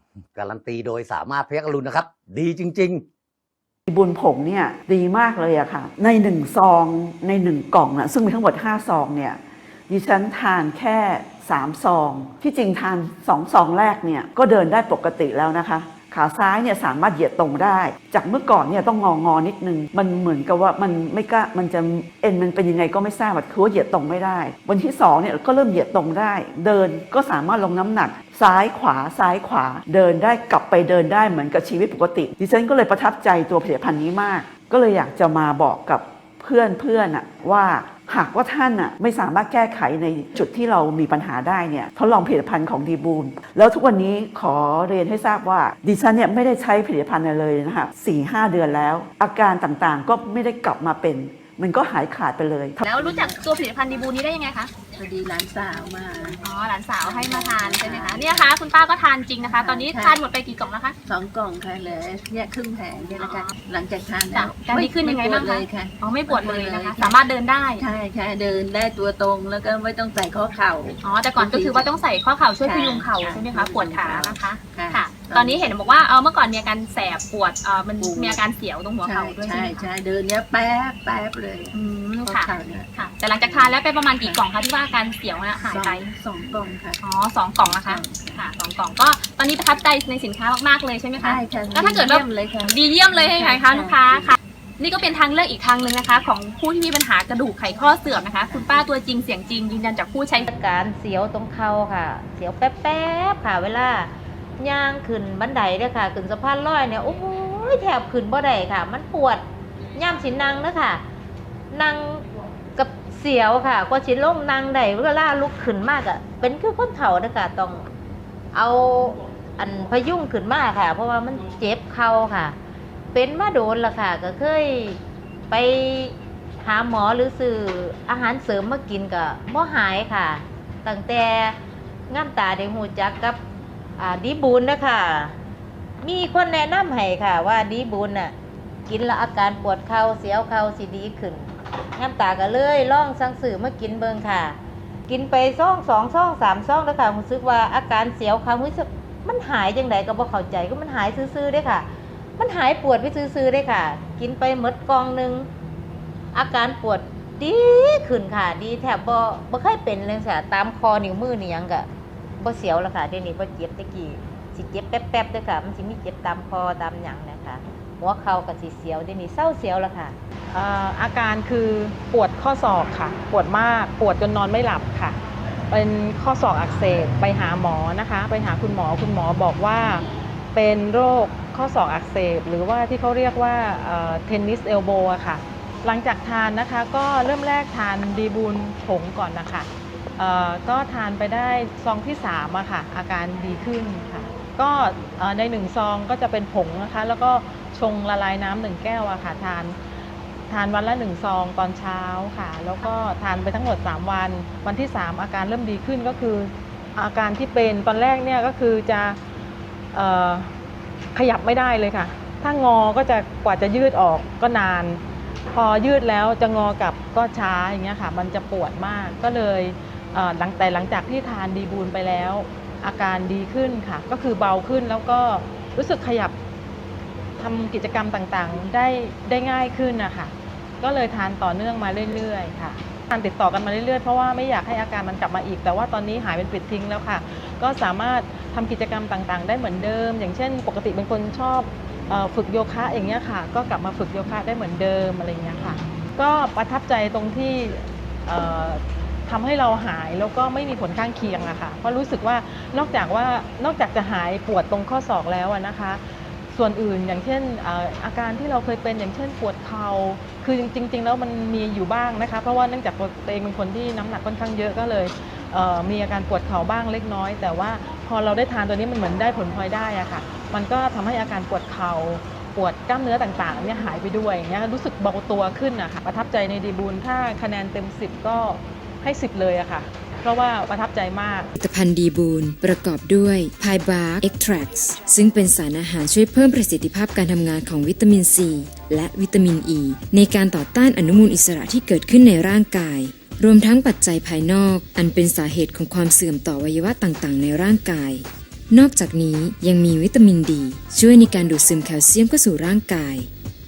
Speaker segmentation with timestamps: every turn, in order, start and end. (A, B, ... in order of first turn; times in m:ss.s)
0:00.4-0:03.0 A
0:03.9-0:52.8 B
0:52.8-0:54.7 C
0:53.0-0:53.4 D
0:55.0-0:56.4 D
0:56.4-1:01.0 C
0:57.0-0:58.5 D
0:59.6-1:00.2 D
1:01.1-1:07.2 D
1:03.2-1:03.5 C
1:04.3-1:07.8 C
1:07.8-1:11.9 D
1:11.0-1:19.9 C
1:12.6-1:15.7 D
1:18.0-1:18.4 D
1:19.0-1:23.7 D
1:21.7-1:26.1 C
1:25.7-1:27.0 D
1:27.0-1:40.5 C
1:27.7-1:28.4 D
1:31.3-1:34.3 D
1:40.5-1:51.0 E
1:51.7-1:52.2 E
1:52.8-1:57.9 E
1:58.5-2:02.6 E
2:03.1-2:11.6 E
2:12.1-2:13.4 E
2:14.0-2:15.4 E
2:16.0-2:18.3 E
2:18.9-2:35.5 E
2:36.3-2:41.9 E
2:42.4-2:50.2 E
2:50.5-2:55.2 F
2:55.7-3:19.8 F
3:20.5-3:29.2 F
3:29.9-3:30.6 F
3:31.2-3:35.0 F
3:35.5-3:46.4 F
3:47.4-4:41.5 F
4:41.6-5:03.3 G